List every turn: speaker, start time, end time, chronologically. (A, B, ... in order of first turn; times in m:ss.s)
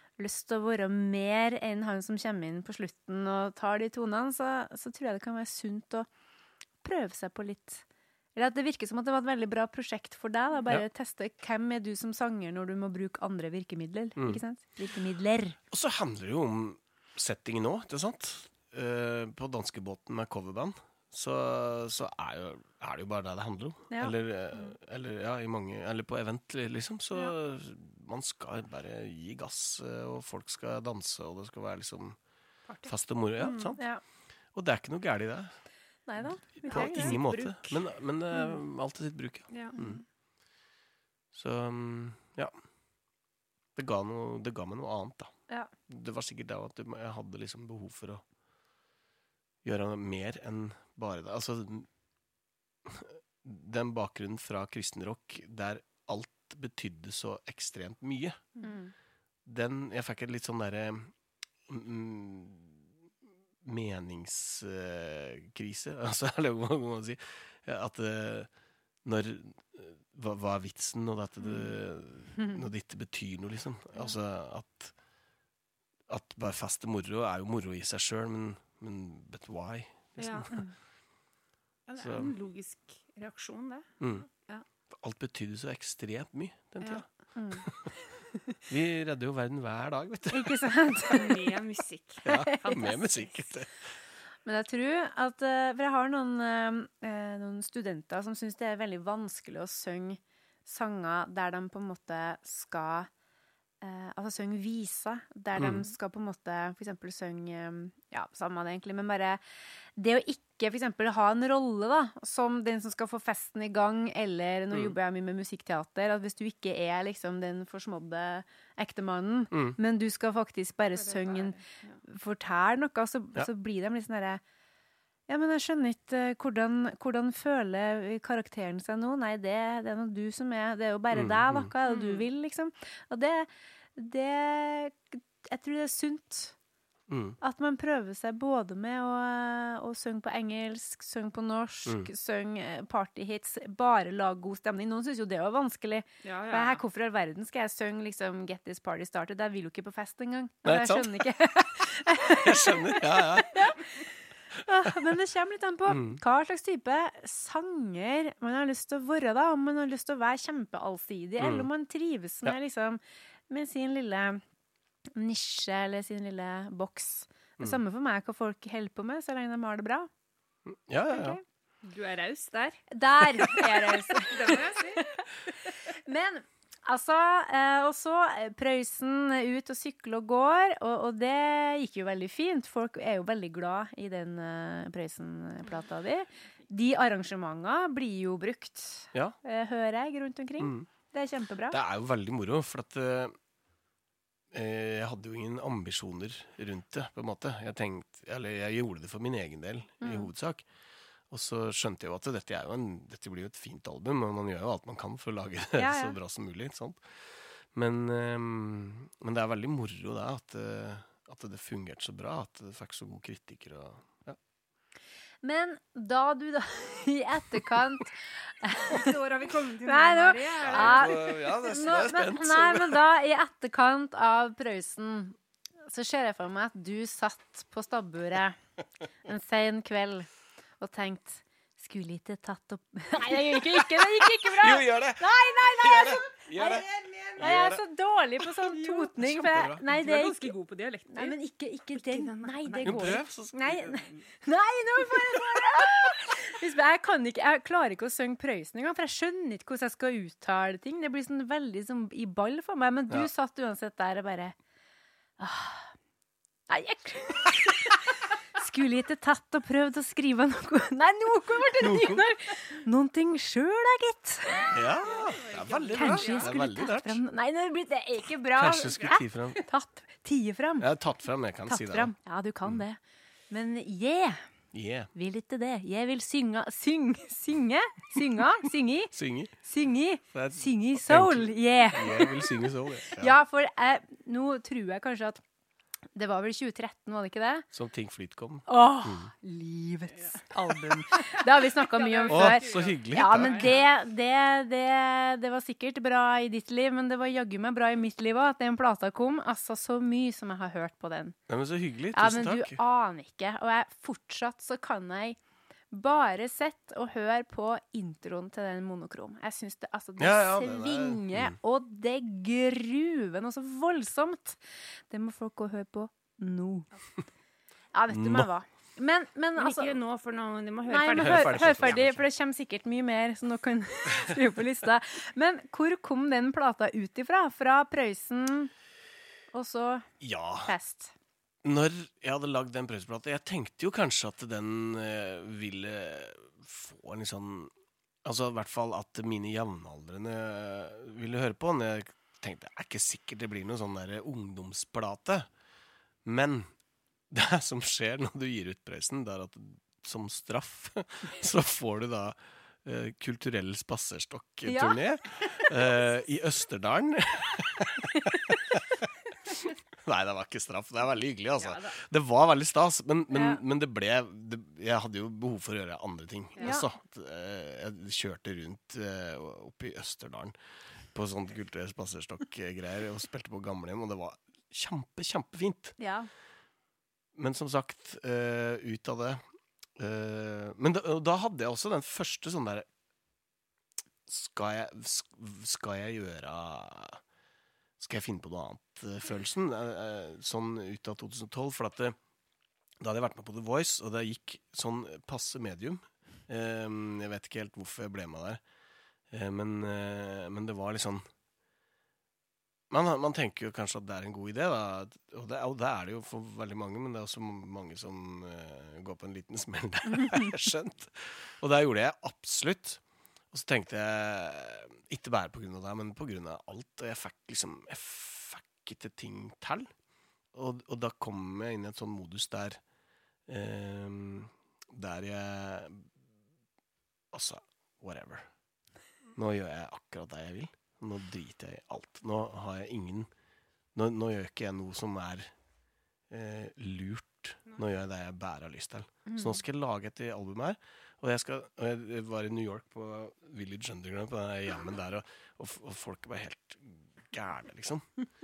0:00.2-0:06.1 A
0:06.8-0:07.8 A
0:08.3-0:15.6 A
0:15.7-0:32.2 B
0:23.9-0:24.1 A
0:32.7-0:33.8 C
0:32.8-0:33.8 B
0:34.5-0:35.6 B
0:36.1-0:37.2 A
0:36.2-0:40.0 B
0:36.6-0:37.8 C
0:39.5-0:39.8 C
0:39.8-0:40.0 A
0:41.3-0:42.5 B
0:43.8-0:45.3 B
0:45.9-0:48.2 B
0:49.6-0:51.9 B
0:52.8-0:58.4 B
0:58.6-0:58.9 A
0:59.4-1:01.1 B
1:01.6-1:02.8 B
1:03.6-1:08.5 B
1:09.0-1:14.9 B
1:16.1-1:20.6 B
1:20.2-1:20.5 C
1:21.9-1:23.9 C
1:22.0-1:22.3 B
1:24.0-1:24.3 B
1:24.9-1:27.0 B
1:27.3-1:27.6 A
1:27.6-1:27.9 B
1:28.6-1:30.6 B
1:30.3-1:31.5 A
1:31.1-1:33.3 C
1:32.2-1:33.8 B
1:34.4-1:43.1 A
1:43.8-1:49.4 A
1:45.6-1:45.8 B
1:50.0-2:04.4 A
1:59.5-1:59.8 B
2:00.9-2:02.0 C
2:05.3-2:16.5 A
2:11.1-2:11.7 B
2:11.8-2:12.2 C
2:17.1-2:17.4 B
2:17.4-2:44.4 A
2:26.2-2:26.8 C
2:30.6-2:31.1 B
2:32.4-2:33.8 B
2:35.9-2:36.2 B
2:41.4-2:41.7 B
2:45.1-2:50.1 A
2:50.6-2:51.4 B
2:51.1-2:51.4 A
2:51.8-2:55.0 C
2:52.9-3:11.8 A
3:10.6-3:10.9 B
3:11.7-3:13.3 B
3:14.5-3:20.6 B
3:20.0-3:20.3 A
3:21.3-3:34.4 B
3:25.7-3:26.2 A
3:35.4-3:39.2 A
3:38.9-3:41.3 C
3:39.8-3:48.6 A
3:40.6-3:43.0 B
3:49.2-3:50.3 A
3:50.8-4:00.5 A
3:53.5-3:57.8 B
3:58.6-3:59.8 B
3:59.9-4:01.4 C
4:01.1-4:14.5 A
4:01.9-4:03.2 C
4:02.8-4:04.2 B
4:15.4-4:15.9 A
4:16.7-4:18.0 A
4:18.5-4:24.8 A
4:21.8-4:22.2 B
4:24.7-4:27.2 B
4:25.0-4:26.5 C
4:25.9-4:30.9 A
4:28.6-4:29.6 B
4:30.8-4:32.1 B
4:31.6-4:34.5 A
4:34.7-4:35.1 B
4:35.1-4:42.4 A
4:39.1-4:39.5 B
4:40.3-4:43.4 B
4:43.1-4:45.4 A
4:46.1-4:47.7 A
4:47.7-4:49.3 B
4:48.7-5:01.4 A
4:51.8-4:53.9 C
4:52.3-4:53.7 B
5:01.5-5:02.8 B
5:02.1-5:05.4 A
5:05.9-5:16.9 A
5:10.2-5:11.6 B
5:17.9-5:20.0 A
5:18.1-5:18.5 B
5:19.6-5:22.0 C
5:20.9-5:28.7 A
5:21.2-5:22.2 B
5:29.5-5:30.1 A
5:30.2-5:30.7 B
5:30.6-5:31.1 A
5:31.6-5:37.7 B
5:38.2-5:45.5 B
5:46.2-5:46.7 B
5:47.3-6:10.6 B
5:54.6-5:55.0 A
6:01.6-6:02.0 C
6:03.3-6:03.6 A
6:06.6-6:06.9 A
6:11.1-6:16.0 B
6:16.0-6:16.3 A
6:17.4-6:19.4 B
6:20.0-6:22.8 B
6:24.3-6:27.2 B
6:28.0-6:32.2 B
6:33.0-6:38.6 B
6:39.3-6:41.3 B
6:42.9-6:53.0 B
6:53.5-6:59.9 B
7:00.5-7:02.8 B
7:03.5-7:06.1 B
7:07.3-7:08.5 B
7:09.3-7:13.3 B
7:13.9-7:15.5 B
7:16.3-7:28.1 B
7:19.3-7:19.6 A